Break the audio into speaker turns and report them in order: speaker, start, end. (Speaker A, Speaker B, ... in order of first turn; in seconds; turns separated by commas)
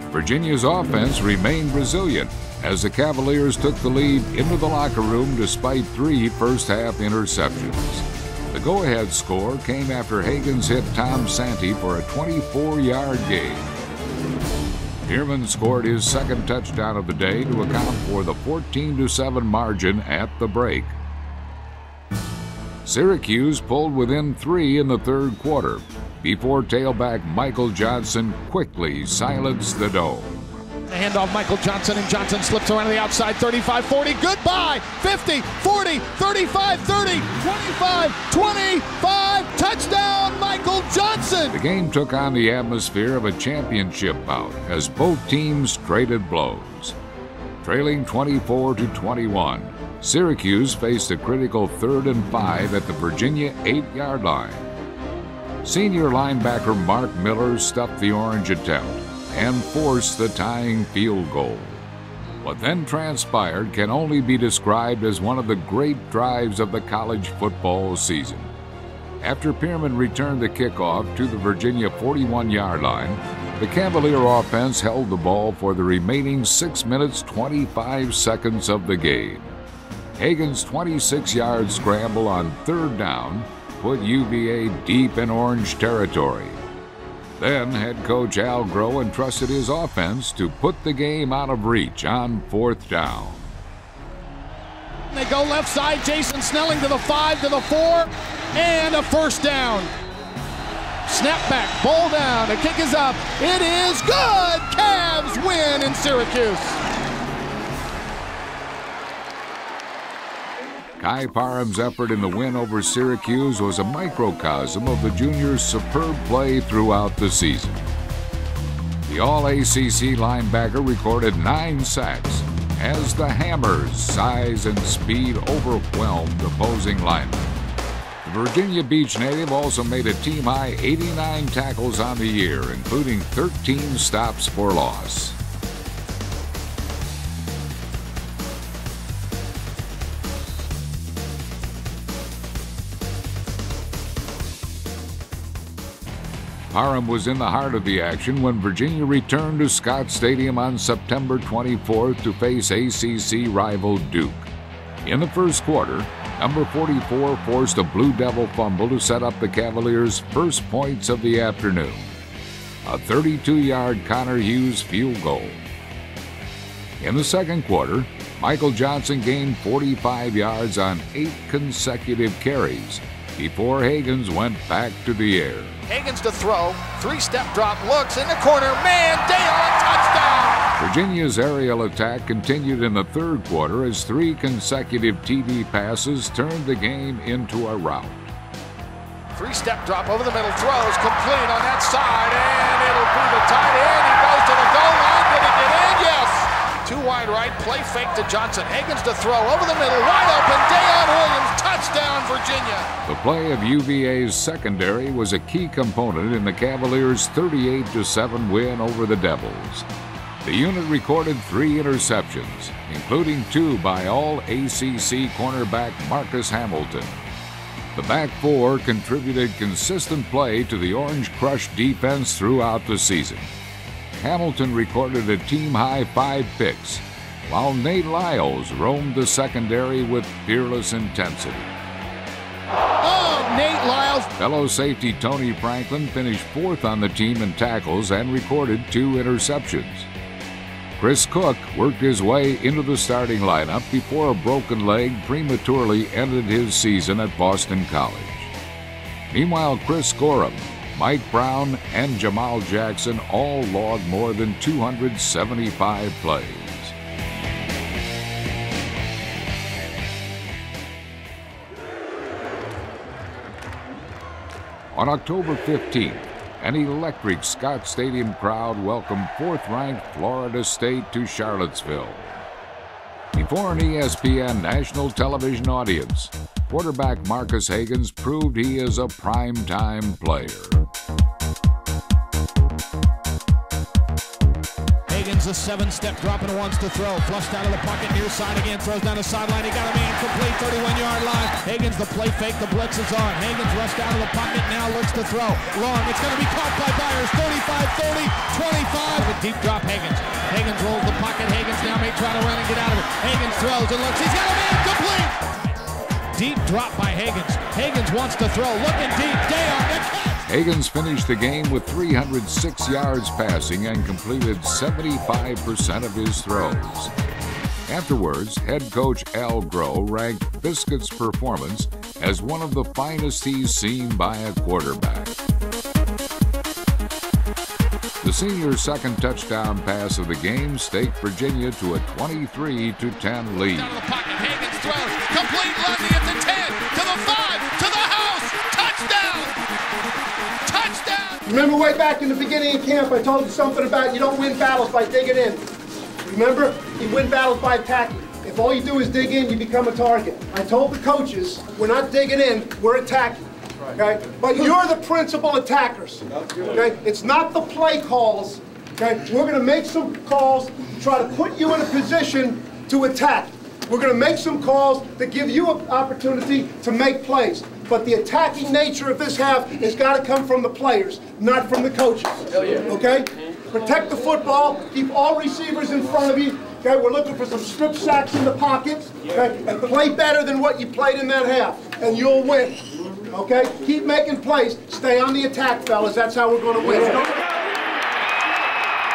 Speaker A: 0.1-13.7, Speaker A: 15.0-21.0, Speaker A: 22.8-30.6, Speaker B: 30.9-41.6, Speaker A: 41.5-47.0, Speaker A: 47.6-54.7, Speaker A: 55.6-61.9, Speaker A: 62.4-68.5, Speaker A: 69.2-79.5, Speaker A: 80.2-86.6, Speaker A: 87.4-93.5, Speaker B: 95.1-99.9, Speaker B: 101.0-106.8, Speaker A: 111.0-117.8, Speaker A: 119.0-127.5, Speaker A: 128.2-135.4, Speaker A: 146.7-154.5, Speaker A: 155.0-162.1, Speaker A: 162.8-165.6, Speaker A: 167.0-175.8, Speaker B: 175.9-180.6, Speaker A: 180.8-188.3, Speaker B: 189.3-202.9, Speaker A: 203.0-209.9, Speaker A: 210.4-217.2, Speaker A: 217.9-223.5, Speaker A: 224.1-231.7, Speaker B: 233.0-234.3, Speaker A: 234.4-240.1, Speaker A: 241.0-248.5, Speaker A: 249.3-256.9, Speaker A: 264.9-272.4, Speaker A: 273.3-280.8, Speaker B: 285.1-305.3, Speaker B: 306.3-310.4, Speaker A: 310.4-317.1, Speaker A: 317.9-325.3, Speaker A: 328.2-333.9, Speaker B: 333.6-339.6, Speaker B: 340.6-341.4, Speaker C: 341.4-345.6, Speaker C: 346.2-353.4, Speaker C: 353.9-387.3